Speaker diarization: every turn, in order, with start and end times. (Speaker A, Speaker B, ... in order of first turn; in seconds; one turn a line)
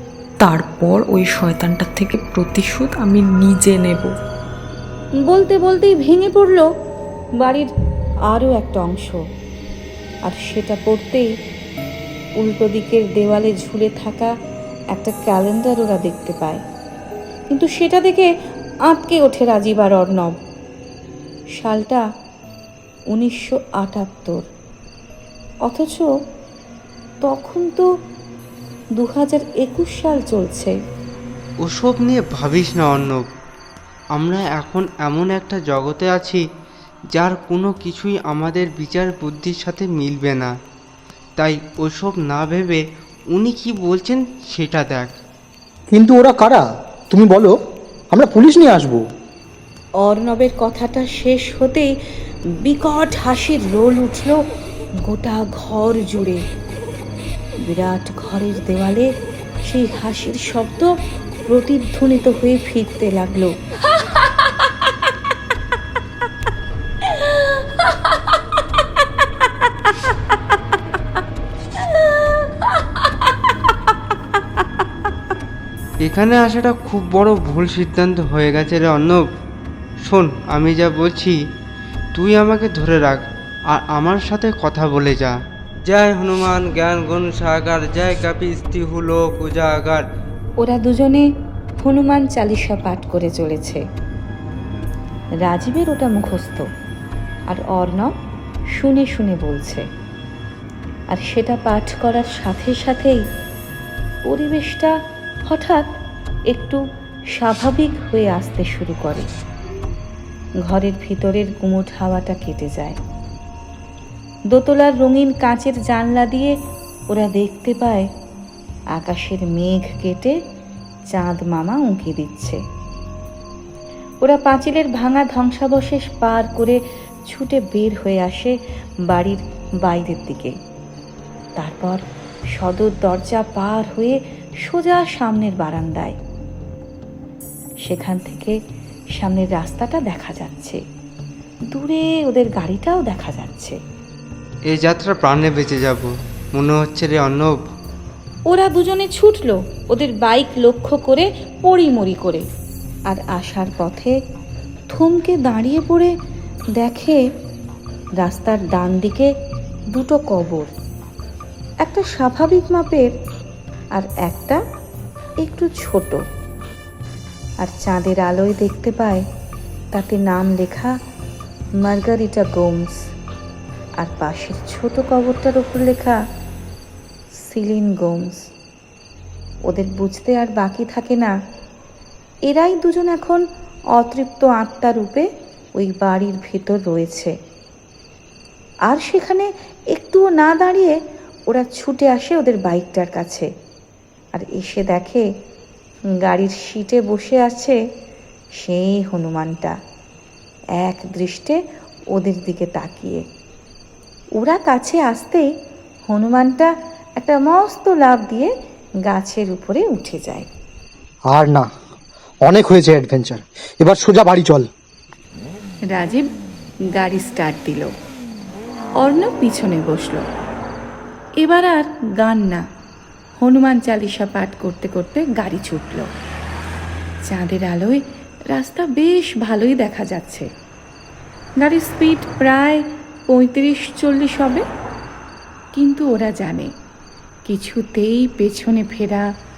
Speaker A: 0.4-4.1
Speaker B: 5.2-6.7
Speaker B: 7.4-7.7
Speaker B: 8.3-9.2
Speaker B: 10.3-11.3
Speaker B: 12.4-14.3
Speaker B: 14.9-16.6
Speaker B: 17.5-18.3
Speaker B: 18.9-20.4
Speaker B: 21.6-22.0
Speaker B: 23.1-24.5
Speaker B: 25.7-26.1
Speaker B: 27.2-27.9
Speaker B: 29.0-30.8
Speaker C: 31.6-33.3
Speaker C: 34.1-36.5
Speaker C: 37.1-40.5
Speaker C: 41.4-42.8
Speaker C: 43.3-45.1
Speaker D: 45.9-47.5
Speaker D: 48.1-49.0
Speaker B: 50.0-51.9
Speaker B: 52.6-54.4
Speaker B: 55.0-56.4
Speaker B: 57.6-59.1
Speaker B: 59.6-60.9
Speaker B: 61.5-63.5
Speaker C: 76.0-79.3
Speaker C: 80.0-81.4
Speaker C: 82.2-90.0
Speaker B: 90.6-91.3
Speaker B: 91.8-93.8
Speaker B: 95.4-96.7
Speaker B: 97.5-98.1
Speaker B: 98.8-99.9
Speaker B: 101.1-103.2
Speaker B: 104.3-105.0
Speaker B: 105.5-105.9
Speaker B: 106.5-106.8
Speaker B: 107.4-109.3
Speaker B: 110.6-113.0
Speaker B: 114.5-116.5
Speaker B: 117.1-118.1
Speaker B: 119.0-120.4
Speaker B: 121.1-122.6
Speaker B: 124.2-126.8
Speaker B: 127.3-128.5
Speaker B: 129.1-130.6
Speaker B: 131.6-132.0
Speaker B: 132.6-136.2
Speaker B: 137.9-138.6
Speaker B: 139.2-140.8
Speaker B: 141.7-143.8
Speaker C: 144.7-147.6
Speaker B: 148.5-152.5
Speaker B: 153.1-154.2
Speaker B: 154.9-156.1
Speaker B: 156.8-157.2
Speaker B: 158.2-159.3
Speaker B: 159.9-160.7
Speaker B: 161.8-163.1
Speaker B: 163.9-164.6
Speaker B: 165.4-166.2
Speaker B: 167.6-169.2
Speaker B: 169.9-170.9
Speaker B: 171.8-172.9
Speaker B: 174.0-176.2
Speaker B: 177.4-178.4
Speaker B: 179.7-181.3
Speaker B: 182.5-183.4
Speaker B: 184.0-185.3
Speaker B: 185.8-187.3
Speaker B: 188.9-191.0
Speaker B: 191.5-193.5
Speaker B: 194.3-195.3
Speaker B: 196.2-197.8
Speaker B: 198.6-199.8
Speaker B: 200.8-201.6
Speaker B: 202.2-203.2
Speaker B: 204.4-205.5
Speaker B: 206.1-208.5
Speaker B: 209.1-210.5
Speaker D: 211.3-211.7
Speaker D: 212.5-214.7
Speaker B: 215.9-216.3
Speaker B: 216.9-217.9
Speaker B: 219.0-220.2
Speaker B: 221.4-222.7
Speaker B: 223.4-226.1
Speaker B: 227.3-230.5
Speaker B: 231.6-234.7
Speaker B: 235.8-236.7
Speaker B: 237.5-239.3